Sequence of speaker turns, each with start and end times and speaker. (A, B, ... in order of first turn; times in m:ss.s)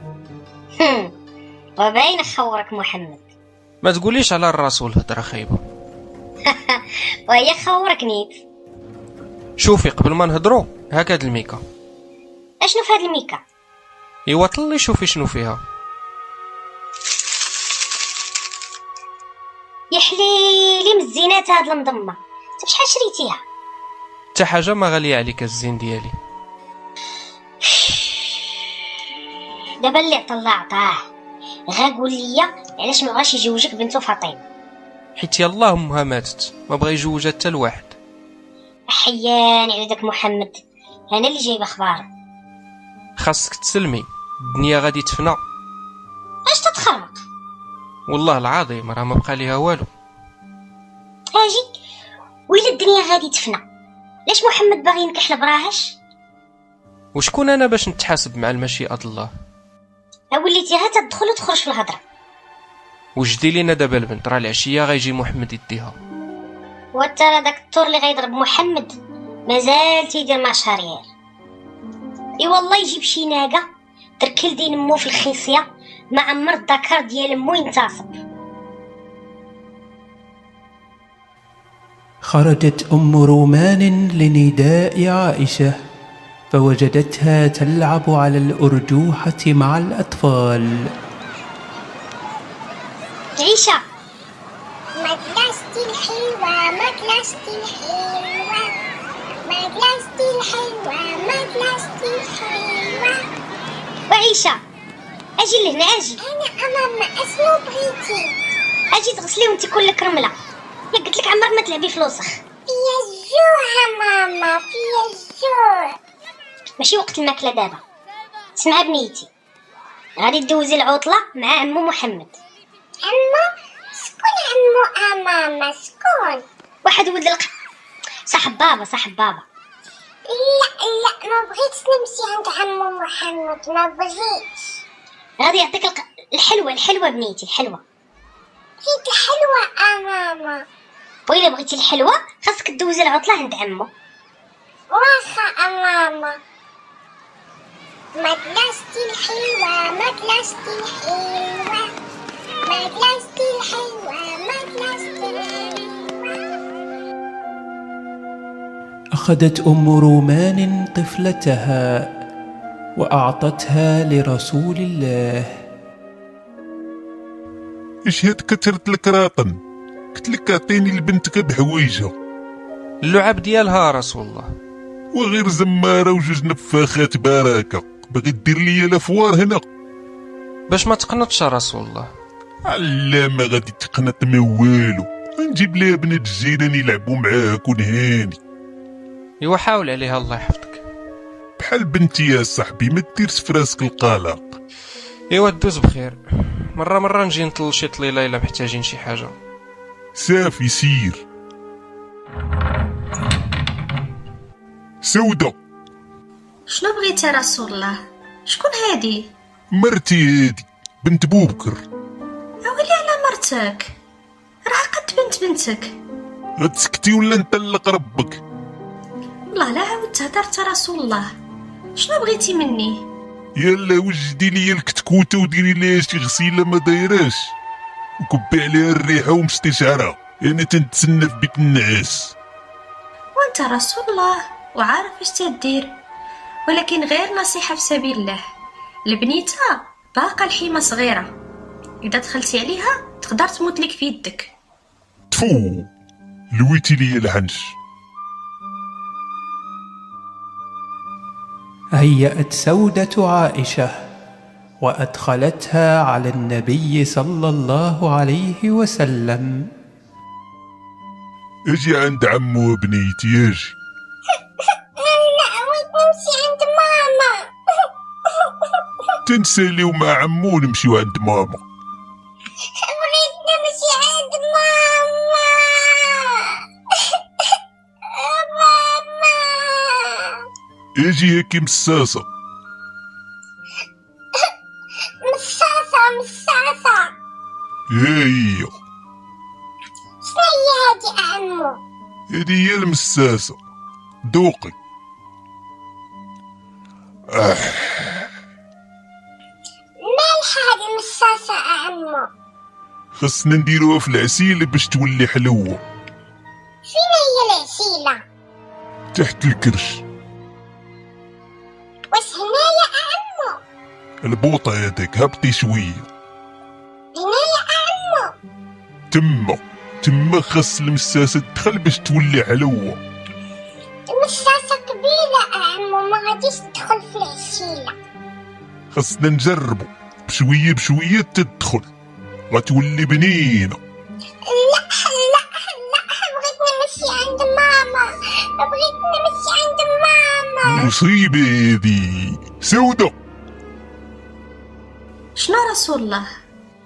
0:00.8-0:01.1 A
0:01.8-0:03.2 A
0:03.8-0:05.6 B
0:06.4-0:08.4 A
0:09.6-0:11.6 B
0:12.6-0:13.4 A
0:14.3-0:15.6 B
0:19.9-0:23.4 A
0:24.4-0:26.2 B
0:27.6-0:28.5 A
0:29.8-0:31.0 A
0:31.7-0:34.4 A
0:35.2-0:38.0 B
0:38.9-0:42.1 A
0:43.2-0:45.4 B
0:46.5-0:47.2 A
0:48.1-0:49.9 B
0:51.3-0:51.7 A
0:52.5-0:53.6 A
0:54.3-0:56.0 A
0:57.2-0:59.3 B
1:00.3-1:02.0 A
1:03.2-1:06.0 B
1:06.9-1:09.0 A
1:09.5-1:11.0 A
1:12.4-1:13.6 A
1:14.2-1:18.1 A
1:22.2-1:25.8 C
1:26.5-1:30.9 C
1:33.4-1:33.8 A
1:35.0-1:38.7 D
1:39.5-1:43.2 D
1:44.1-1:44.6 A
1:45.4-1:46.2 A
1:46.2-1:48.3 D
1:48.9-1:50.4 A
1:50.9-1:52.4 A
1:52.7-1:56.0 D
1:56.8-1:57.8 A
1:58.6-1:59.3 A
2:00.2-2:02.3 A
2:03.0-2:06.4 D
2:06.8-2:07.5 A
2:08.3-2:09.4 A
2:10.3-2:14.8 D
2:15.4-2:17.8 A
2:18.8-2:20.6 D
2:21.3-2:23.9 A
2:24.9-2:26.4 D
2:28.2-2:31.9 D
2:32.7-2:36.1 D
2:39.2-2:42.1 C
2:43.0-2:45.6 C
2:48.0-2:49.6 E
2:50.1-2:52.1 E
2:53.0-2:54.5 B
2:55.1-2:59.7 E
3:00.7-3:02.1 B
3:02.6-3:08.4 E
3:09.4-3:10.8 B
3:11.6-3:14.6 E
3:15.3-3:19.4 B
3:20.2-3:21.2 E
3:25.0-3:25.6 E
3:26.7-3:29.3 F
3:29.7-3:31.8 E
3:32.6-3:33.9 F
3:34.6-3:36.0 F
3:36.6-3:38.4 E
3:39.5-3:41.3 F
3:42.0-3:43.1 F
3:43.6-3:47.6 E
3:48.2-3:52.4 E
3:53.4-3:56.0 F
3:56.7-3:58.4 F
3:59.1-4:01.4 F
4:02.0-4:04.5 F
4:05.3-4:05.9 E
4:06.5-4:07.8 E
4:12.0-4:14.0 C
4:14.8-4:19.7 C
4:21.7-4:23.8 E
4:25.0-4:28.5 D
4:29.2-4:31.6 E
4:32.7-4:37.6 D
4:38.1-4:40.4 D
4:41.0-4:42.3 E
4:45.2-4:47.1 D
4:47.9-4:48.8 E
4:50.2-4:51.8 D
4:52.3-4:53.6 E
4:54.3-4:54.8 E
4:57.3-4:58.3 E
5:00.0-5:02.3 D
5:03.2-5:05.8 E
5:06.9-5:08.2 D
5:09.1-5:10.0 E
5:12.1-5:13.6 D
5:14.2-5:16.1 E
5:17.2-5:18.3 D
5:19.1-5:23.0 E
5:24.1-5:27.9 D
5:28.9-5:31.9 E
5:32.5-5:33.8 E
5:34.4-5:40.9 D
5:40.6-5:43.2 E
5:45.4-5:46.3 F